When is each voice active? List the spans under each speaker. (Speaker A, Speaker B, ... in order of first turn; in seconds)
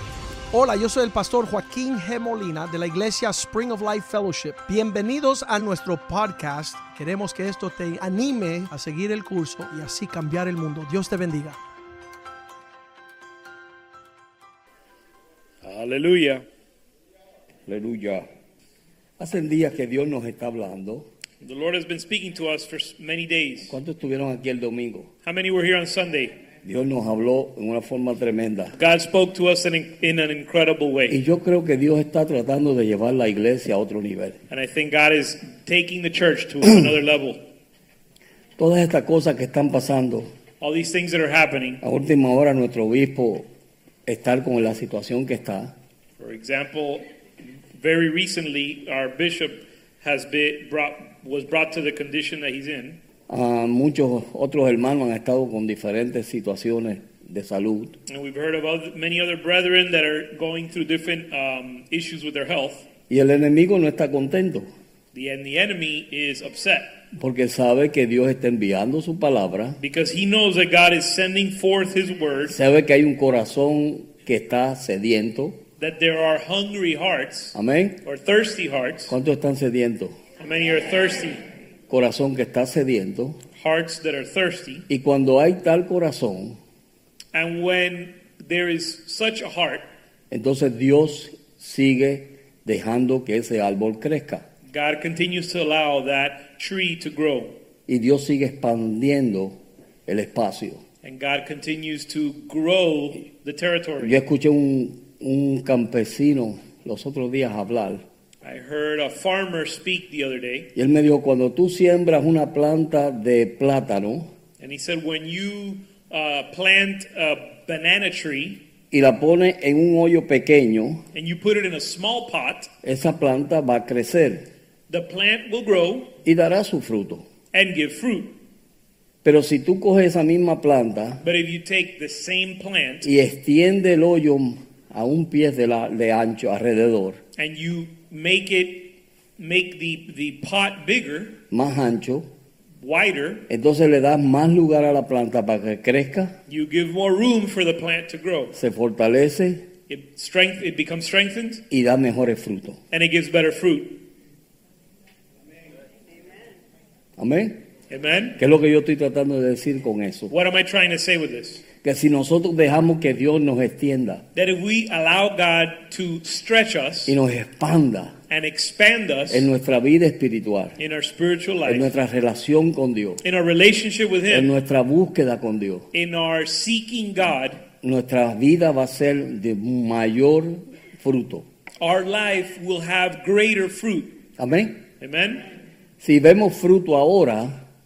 Speaker A: 0.5-11.6
Speaker B: 15.6-16.4, 21.4-23.7, 25.2-26.3, 28.8-31.1, 34.5-37.4, 40.6-41.8, 46.2-47.0, 47.8-53.0, 58.1-62.9, 65.1-66.9, 69.8-72.6, 75.8-79.1, 80.4-81.4, 83.6-84.8, 87.3-89.8, 94.7-97.5, 101.0-104.2, 108.4-110.7, 114.6-118.6, 121.1-122.7, 124.9-126.1, 127.5-128.3, 131.2-133.1, 137.4-141.3, 142.8-143.4, 146.5-148.6, 149.9-151.6, 152.9-154.0, 157.9-158.4, 160.3-161.6, 164.3-167.2, 168.3-169.5, 170.8-171.9, 173.2-174.5, 175.9-177.6, 181.8-184.1, 185.0-185.4
Speaker C: 17.7-18.2, 19.2-21.1, 23.7-25.1, 26.6-28.7, 31.1-34.4, 38.6-40.3, 41.8-43.5, 44.0-45.7, 53.3-58.0, 63.1-64.7, 67.2-69.8, 72.5-75.6, 77.5-78.0, 79.1-80.1, 81.9-83.4, 84.9-86.6, 90.3-94.4, 97.9-99.5, 100.1-100.8, 104.0-108.0, 110.8-114.3, 118.9-121.0, 122.8-124.4, 126.2-127.2, 129.2-131.2, 133.0-137.2, 141.5-142.3, 143.5-146.3, 148.5-149.6, 151.7-152.8, 157.2-157.6, 158.4-160.3, 161.8-164.2, 167.1-168.1, 169.3-170.8, 171.6-173.2, 174.3-175.8, 177.8-181.4, 184.4-184.8, 186.0-187.5